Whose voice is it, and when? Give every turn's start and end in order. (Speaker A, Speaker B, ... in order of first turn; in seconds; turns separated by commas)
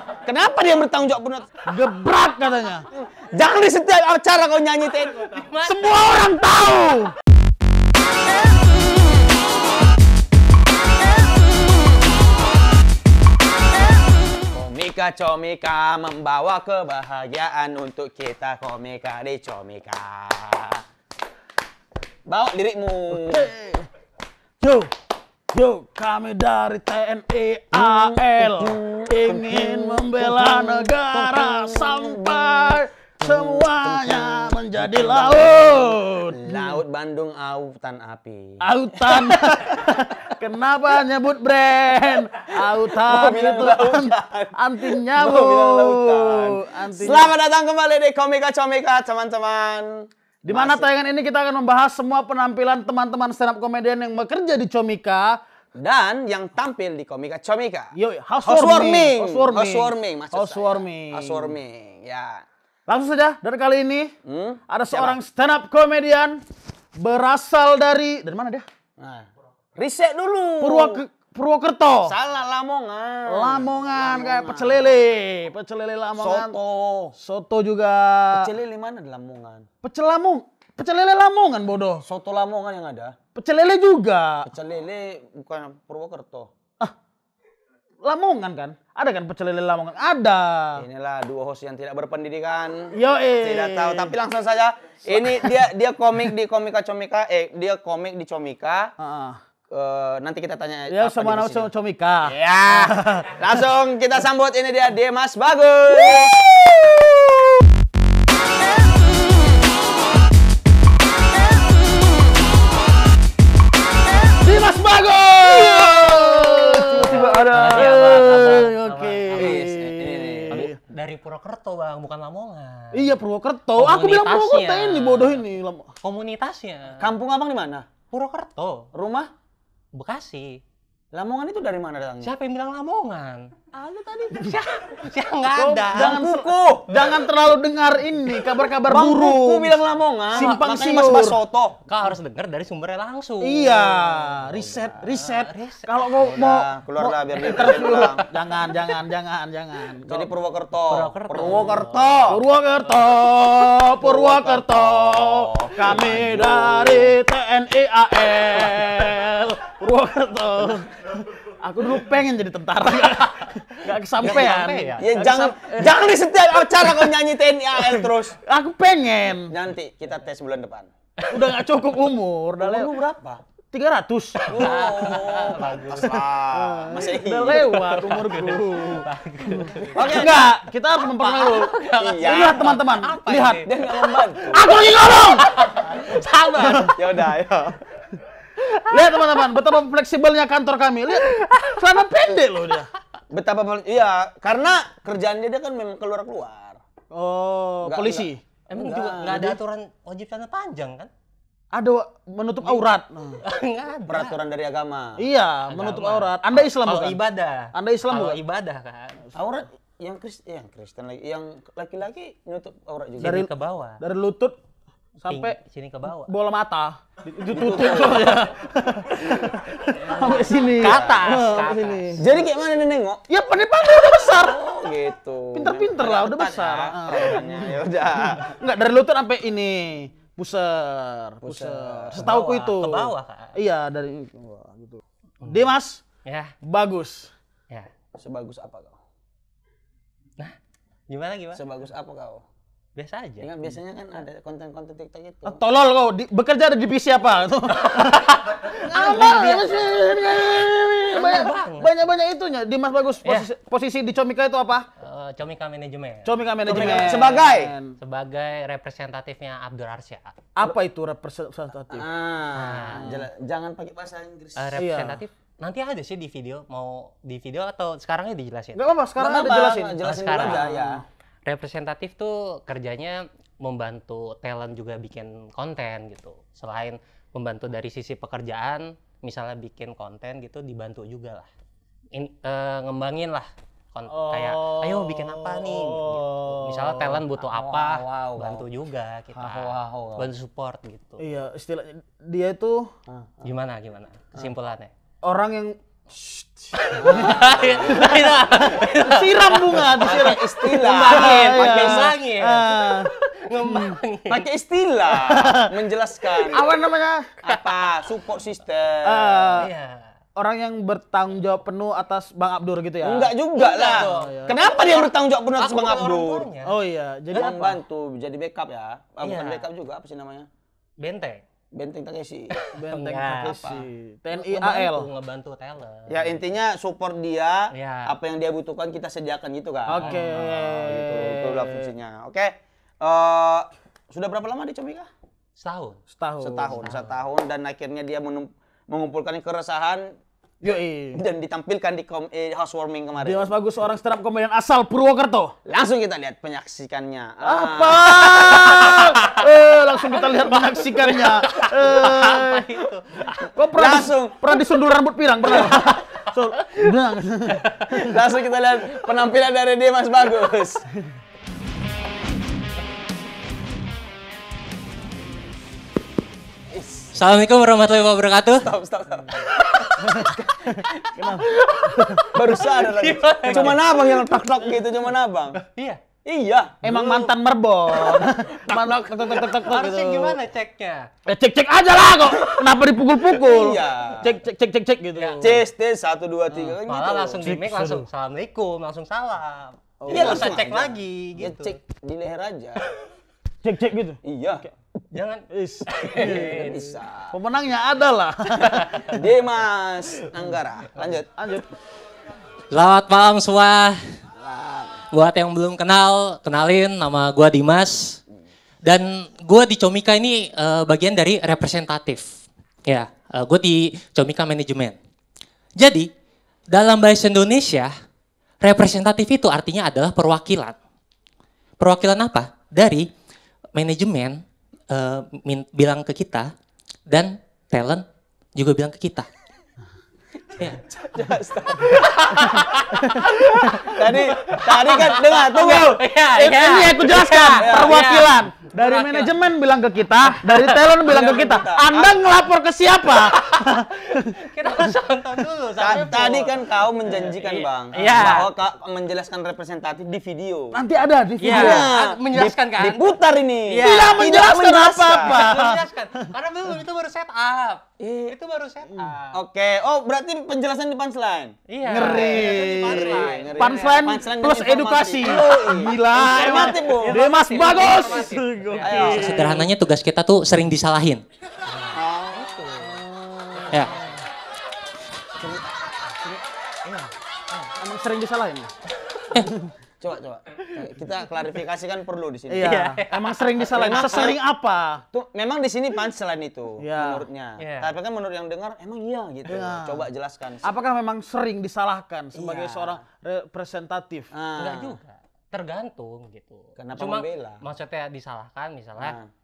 Speaker A: 0.2-1.5, Speaker B: 1.7-2.9, Speaker A: 2.9-5.5, Speaker C: 5.3-6.0, Speaker B: 5.6-7.1, Speaker A: 14.5-20.8, Speaker A: 22.2-23.5, Speaker B: 23.1-23.9, Speaker B: 24.6-24.9, Speaker B: 25.5-36.8, Speaker A: 27.7-39.6, Speaker B: 38.6-47.3, Speaker A: 42.6-50.9, Speaker B: 50.5-55.4, Speaker A: 55.8-57.9, Speaker B: 58.0-61.5, Speaker A: 58.5-62.5, Speaker B: 62.9-64.1, Speaker A: 64.2-65.2, Speaker B: 64.7-66.4, Speaker B: 67.0-68.6, Speaker A: 69.0-71.0, Speaker B: 70.6-72.1, Speaker A: 72.0-75.0, Speaker B: 73.3-76.5, Speaker A: 76.2-77.1, Speaker B: 77.2-78.5, Speaker A: 78.3-79.7, Speaker B: 79.8-82.0, Speaker A: 82.0-83.2, Speaker B: 83.3-84.5, Speaker A: 84.5-86.5, Speaker B: 88.0-90.8, Speaker A: 90.8-98.9, Speaker B: 92.9-94.1, Speaker B: 95.1-95.5, Speaker B: 99.0-99.4, Speaker A: 99.7-101.7, Speaker B: 100.9-103.4, Speaker A: 102.2-107.3, Speaker B: 114.4-120.8, Speaker A: 115.4-118.0, Speaker C: 116.9-119.7, Speaker A: 119.3-120.7, Speaker C: 120.5-123.1, Speaker B: 122.9-125.9, Speaker C: 123.8-125.4, Speaker C: 126.0-127.1, Speaker A: 127.0-127.9, Speaker C: 128.1-128.9, Speaker A: 128.9-129.3, Speaker C: 129.9-130.6, Speaker A: 131.1-132.3, Speaker C: 132.2-133.5, Speaker B: 133.8-134.6, Speaker C: 134.3-136.2, Speaker B: 135.5-139.8, Speaker A: 135.9-136.9, Speaker A: 138.9-141.8, Speaker B: 140.3-141.4, Speaker C: 141.9-144.0, Speaker B: 143.4-150.3, Speaker A: 144.2-145.0, Speaker C: 145.1-145.9, Speaker A: 146.2-148.3, Speaker A: 150.1-152.4, Speaker C: 150.9-152.4, Speaker B: 152.3-166.0, Speaker A: 154.0-157.2, Speaker C: 164.2-165.1, Speaker A: 164.2-168.4, Speaker B: 168.3-169.6, Speaker A: 169.5-170.9, Speaker C: 171.2-171.5, Speaker B: 171.3-172.9, Speaker A: 172.6-173.4, Speaker B: 173.7-174.6, Speaker C: 174.4-176.2, Speaker A: 174.5-177.8, Speaker B: 176.0-183.7, Speaker C: 177.5-180.2, Speaker A: 179.9-180.5, Speaker C: 181.0-184.1, Speaker A: 181.9-182.7, Speaker A: 183.6-184.7, Speaker B: 184.5-185.5, Speaker C: 185.0-186.9, Speaker B: 186.6-187.0, Speaker A: 186.8-187.8, Speaker B: 188.6-192.9, Speaker A: 193.3-196.8, Speaker B: 197.1-198.4, Speaker A: 197.8-199.6, Speaker C: 198.7-201.1, Speaker B: 201.7-203.4, Speaker C: 203.4-204.4, Speaker A: 204.1-205.2, Speaker B: 205.2-207.2, Speaker C: 205.7-209.2, Speaker B: 207.7-208.4, Speaker A: 209.3-213.4, Speaker C: 213.2-214.0, Speaker B: 213.2-213.5, Speaker B: 214.0-214.6, Speaker B: 215.2-215.6, Speaker C: 215.3-216.3, Speaker B: 216.2-222.2, Speaker A: 217.5-218.4, Speaker C: 220.1-222.2, Speaker A: 220.8-221.3, Speaker A: 222.2-223.2, Speaker B: 223.3-224.6, Speaker A: 224.2-228.6, Speaker B: 225.5-227.7, Speaker B: 228.4-236.0, Speaker A: 231.4-232.3, Speaker C: 232.2-233.6, Speaker C: 235.4-235.7, Speaker C: 236.3-236.5, Speaker B: 236.6-237.3, Speaker A: 238.2-239.0, Speaker C: 241.1-241.6, Speaker A: 241.5-242.4, Speaker C: 243.0-243.5, Speaker A: 243.4-245.6, Speaker B: 245.4-254.9, Speaker C: 247.9-250.0, Speaker C: 251.1-251.9, Speaker C: 255.0-257.4, Speaker B: 256.2-257.9, Speaker A: 256.6-257.7, Speaker C: 258.0-260.4, Speaker B: 260.6-262.1, Speaker A: 261.9-264.8, Speaker C: 262.5-263.1, Speaker B: 262.9-263.2, Speaker C: 264.6-268.8, Speaker B: 264.8-265.2, Speaker B: 268.8-271.0, Speaker A: 269.2-271.0, Speaker C: 270.0-270.7, Speaker C: 271.4-281.5, Speaker C: 282.1-291.2, Speaker B: 284.1-287.2, Speaker A: 287.5-288.6, Speaker A: 289.3-290.3, Speaker B: 291.2-292.9, Speaker A: 293.1-293.5, Speaker C: 293.4-294.9, Speaker B: 295.2-304.0, Speaker C: 296.8-304.4, Speaker A: 297.0-298.3, Speaker A: 299.9-302.1, Speaker A: 304.2-306.6, Speaker B: 305.1-305.7, Speaker B: 306.4-307.3, Speaker A: 307.4-309.7, Speaker B: 309.0-309.7, Speaker C: 309.6-310.1, Speaker B: 310.4-313.3, Speaker A: 313.0-316.5, Speaker C: 313.5-316.8, Speaker B: 313.9-314.6, Speaker B: 316.6-317.8, Speaker A: 317.3-320.5, Speaker C: 319.2-319.7, Speaker C: 321.0-321.4, Speaker A: 321.7-322.6, Speaker C: 322.5-323.6, Speaker B: 322.7-325.1, Speaker A: 323.4-323.8, Speaker C: 324.3-326.4, Speaker A: 326.1-335.1, Speaker C: 327.7-328.1, Speaker B: 329.9-331.7, Speaker C: 330.0-331.7, Speaker C: 335.6-336.0, Speaker B: 336.1-336.9, Speaker A: 336.4-340.1, Speaker C: 336.8-337.1, Speaker B: 340.6-341.2, Speaker A: 341.1-343.5, Speaker B: 343.2-345.5, Speaker A: 345.6-349.2, Speaker B: 347.4-352.7, Speaker C: 350.3-353.4, Speaker B: 353.5-358.1, Speaker A: 353.8-354.5, Speaker C: 355.6-355.9, Speaker C: 356.6-356.9, Speaker A: 357.9-360.9, Speaker A: 366.7-367.1, Speaker D: 367.1-368.7, Speaker A: 368.6-371.1, Speaker B: 370.0-372.5, Speaker A: 372.3-375.6, Speaker C: 372.8-373.8, Speaker C: 375.6-376.0, Speaker A: 376.2-377.3, Speaker B: 376.8-380.4, Speaker A: 377.9-379.4, Speaker C: 379.6-381.1, Speaker B: 381.3-385.6, Speaker A: 382.3-382.6, Speaker A: 383.2-384.4, Speaker C: 385.1-385.5, Speaker A: 385.4-387.4, Speaker C: 386.6-391.8, Speaker B: 387.4-388.1, Speaker B: 390.0-390.6, Speaker A: 390.1-392.9, Speaker B: 393.6-394.7, Speaker A: 394.2-394.6, Speaker C: 395.1-396.8, Speaker B: 395.5-396.8, Speaker A: 396.0-397.4, Speaker B: 397.3-399.2, Speaker A: 398.6-401.3, Speaker B: 401.3-401.7, Speaker D: 402.7-404.2, Speaker A: 404.4-405.0, Speaker D: 405.1-408.2, Speaker D: 408.8-415.0, Speaker D: 415.8-416.1, Speaker D: 416.7-417.9, Speaker D: 418.6-420.8, Speaker D: 421.8-423.1, Speaker D: 423.8-426.5, Speaker D: 427.1-429.3, Speaker A: 430.5-432.6, Speaker C: 431.9-439.3, Speaker B: 432.7-434.0, Speaker A: 433.8-436.0, Speaker B: 436.3-444.9, Speaker A: 437.6-438.1, Speaker C: 440.2-440.7, Speaker A: 441.1-442.2, Speaker C: 443.1-448.5, Speaker A: 445.8-450.8, Speaker B: 447.9-448.3, Speaker B: 450.7-451.9, Speaker C: 451.4-454.3, Speaker A: 451.5-455.5, Speaker B: 453.8-456.3, Speaker C: 455.2-459.4, Speaker A: 458.0-458.3, Speaker A: 459.3-467.8, Speaker C: 461.7-464.1, Speaker B: 461.8-469.6, Speaker C: 466.3-469.7, Speaker A: 468.8-469.5, Speaker D: 469.0-471.2, Speaker C: 471.7-472.9, Speaker A: 471.9-472.8, Speaker B: 472.8-474.2, Speaker C: 473.7-474.0, Speaker A: 475.4-475.7, Speaker C: 476.8-477.7, Speaker B: 477.8-478.7, Speaker A: 480.0-482.8, Speaker B: 482.5-485.0, Speaker C: 482.6-484.3, Speaker A: 483.6-484.4, Speaker A: 485.1-490.6, Speaker B: 486.8-487.2, Speaker C: 487.6-487.9, Speaker B: 489.5-490.1, Speaker B: 490.6-494.3, Speaker A: 492.3-493.0, Speaker A: 494.3-495.0, Speaker C: 494.6-499.2, Speaker A: 496.8-497.6, Speaker A: 499.0-499.3